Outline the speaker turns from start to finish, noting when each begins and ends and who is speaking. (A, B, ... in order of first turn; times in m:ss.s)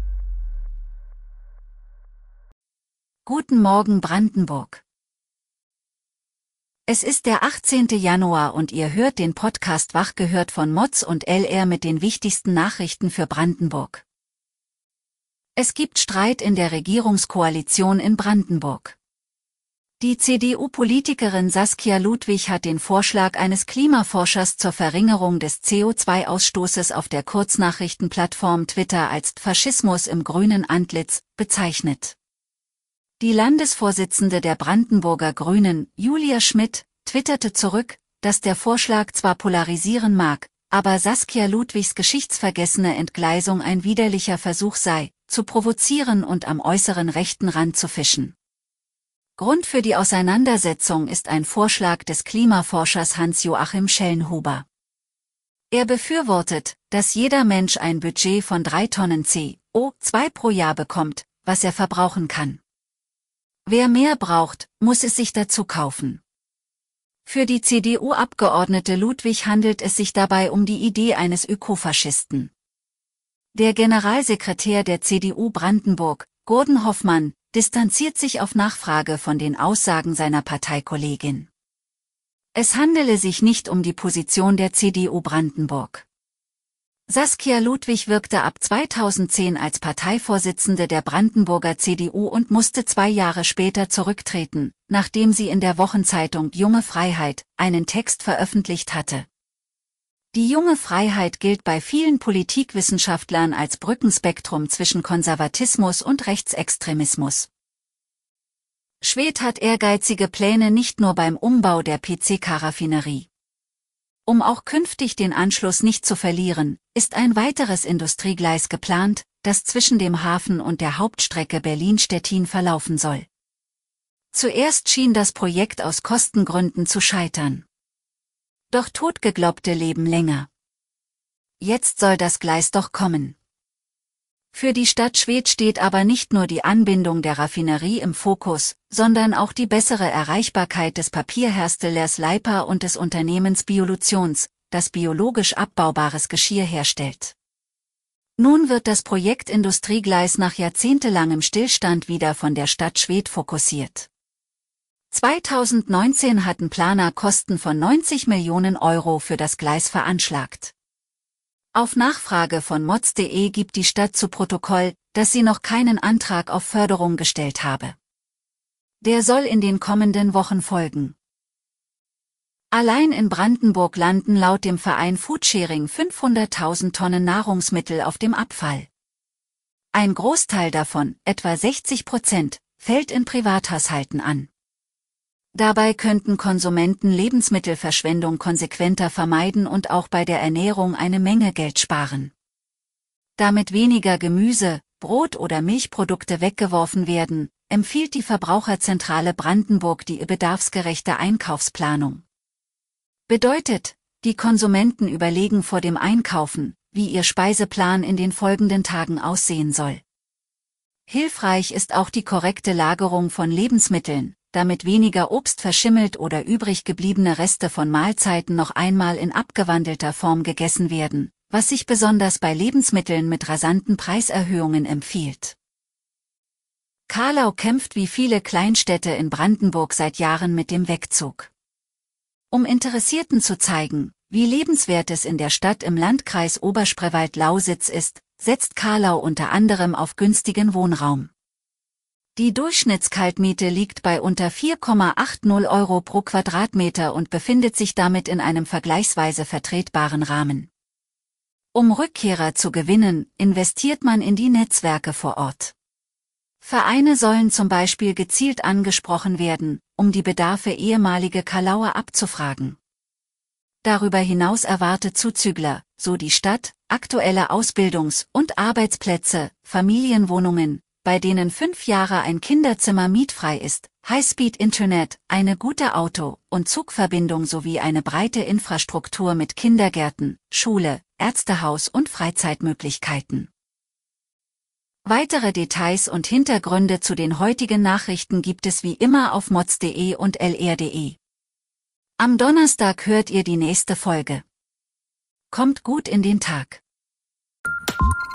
0:03.2-0:04.8 A
0:06.9-0:14.0 A
0:15.6-0:19.0 A
0:20.0-0:32.2 A
0:33.2-0:48.3 A
0:49.4-0:54.6 A
0:55.7-1:02.6 A
1:03.6-1:06.2 A
1:07.2-1:12.5 A
1:13.5-1:21.5 A
1:22.5-1:26.0 A
1:27.1-1:39.3 A
1:40.3-1:47.5 A
1:49.0-1:53.3 A
1:54.2-2:03.3 A
2:04.3-2:07.6 A
2:08.7-2:10.5 A
2:11.6-2:13.4 A
2:14.5-2:27.4 A
2:28.4-2:34.1 A
2:35.1-2:40.7 A
2:41.7-2:48.0 A
2:49.0-2:51.1 A
2:52.7-2:58.9 A
2:59.9-3:04.5 A
3:05.5-3:12.3 A
3:13.4-3:22.2 A
3:23.3-3:30.0 A
3:31.1-3:45.6 A
3:47.1-3:51.5 A
3:52.5-4:01.3 A
4:02.4-4:10.7 A
4:11.7-4:15.7 A
4:16.6-4:22.8 A
4:23.8-4:43.5 A
4:45.0-4:51.2 A
4:52.2-4:54.4 A
4:55.5-4:56.8 A